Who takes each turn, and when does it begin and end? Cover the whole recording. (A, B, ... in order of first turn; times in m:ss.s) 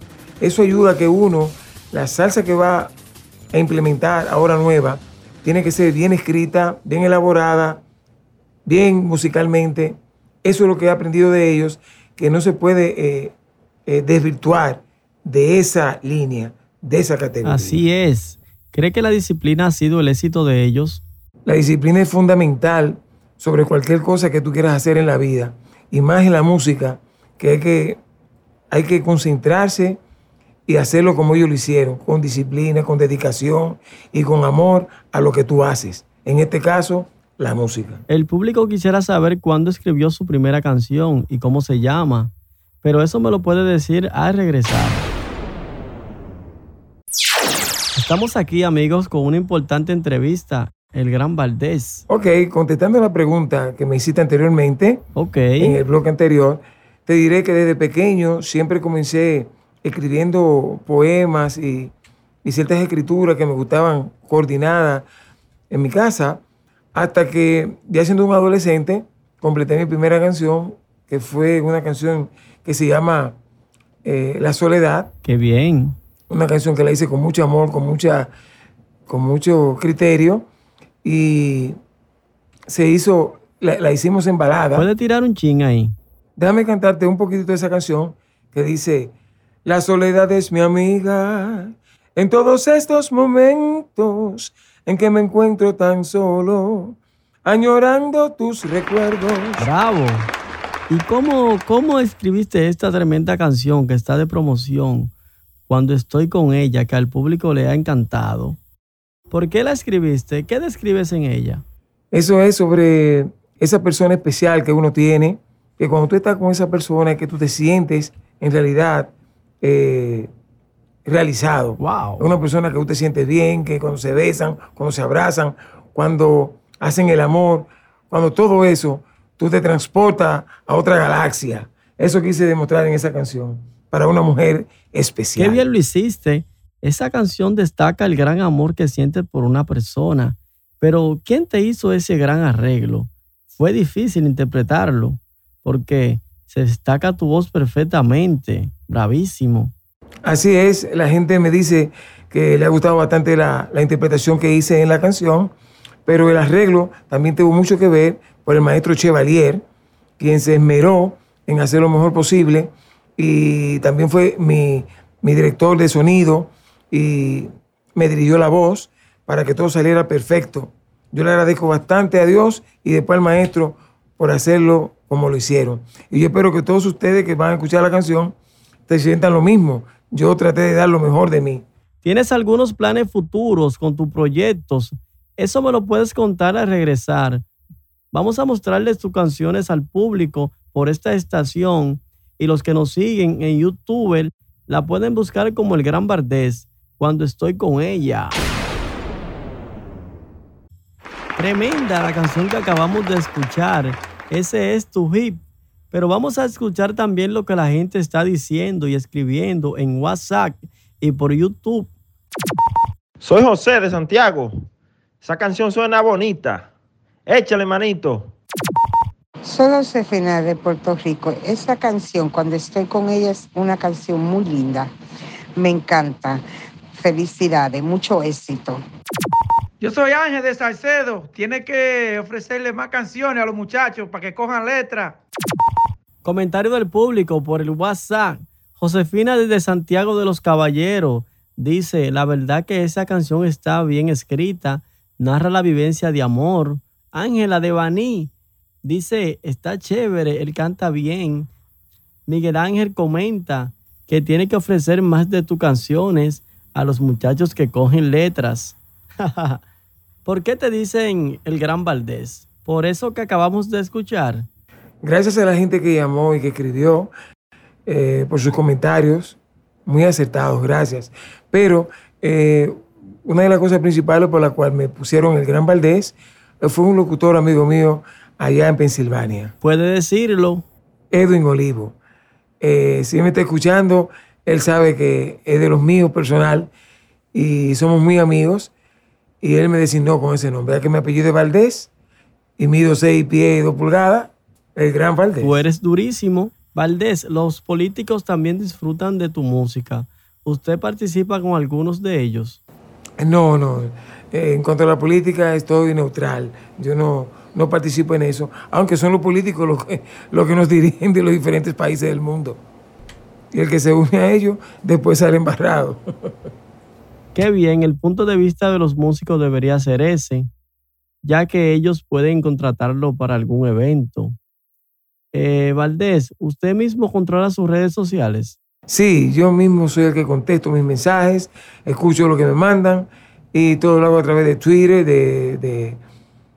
0:00.4-0:02.9 A
0:03.5-0:07.8 A
0:08.7-0:13.3 A
0:13.9-0:17.8 A
0:17.4-0:21.0 B
0:21.5-0:28.0 A
0:28.7-0:30.0 A
0:30.7-0:38.0 A
0:38.1-0:45.1 B
0:48.0-0:52.0 B
0:52.1-0:55.0 A
0:55.2-0:55.8 B
0:55.6-1:01.9 A
1:02.4-1:05.1 A
1:05.7-1:06.4 A
1:06.9-1:13.4 A
1:14.0-1:15.1 A
1:15.2-1:16.0 B
1:16.3-1:18.3 A
1:19.1-1:20.5 A
1:21.0-1:21.8 A
1:22.7-1:24.9 A
1:24.8-1:26.0 B
1:26.4-1:29.1 A
1:29.6-1:39.7 A
1:39.6-1:40.3 B
1:40.9-1:45.1 B
1:45.7-1:48.6 B
1:49.3-1:51.6 B
1:52.1-2:00.3 A
2:01.1-2:15.6 A
2:01.8-2:02.3 B
2:15.4-2:29.7 B
2:30.2-2:35.5 A
2:36.1-2:39.6 A
2:40.2-2:58.4 A
2:58.9-3:01.6 A
3:02.0-3:07.4 B
3:08.1-3:18.5 B
3:21.4-3:25.4 B
3:25.9-3:31.9 B
3:33.2-3:34.5 C
3:35.2-3:36.6 C
3:37.3-3:38.2 C
3:39.4-3:44.9 D
3:45.6-3:46.4 D
3:47.0-3:48.8 D
3:49.8-3:55.2 E
3:56.2-4:08.3 B
4:08.8-4:11.5 B
4:12.3-4:19.6 B
4:20.2-4:24.5 B
4:25.0-4:27.1 A
4:27.9-4:39.5 A
4:39.6-4:40.6 B
4:41.1-4:42.0 A
4:42.6-4:46.7 A
4:47.3-4:48.7 A
4:49.4-4:51.9 A
4:52.6-4:55.6 A
4:55.4-5:02.6 B
5:03.2-5:12.6 A
5:13.5-5:16.0 A
5:17.4-5:20.5 B
5:21.2-5:24.4 B
5:25.3-5:28.6 B
5:28.9-5:36.0 A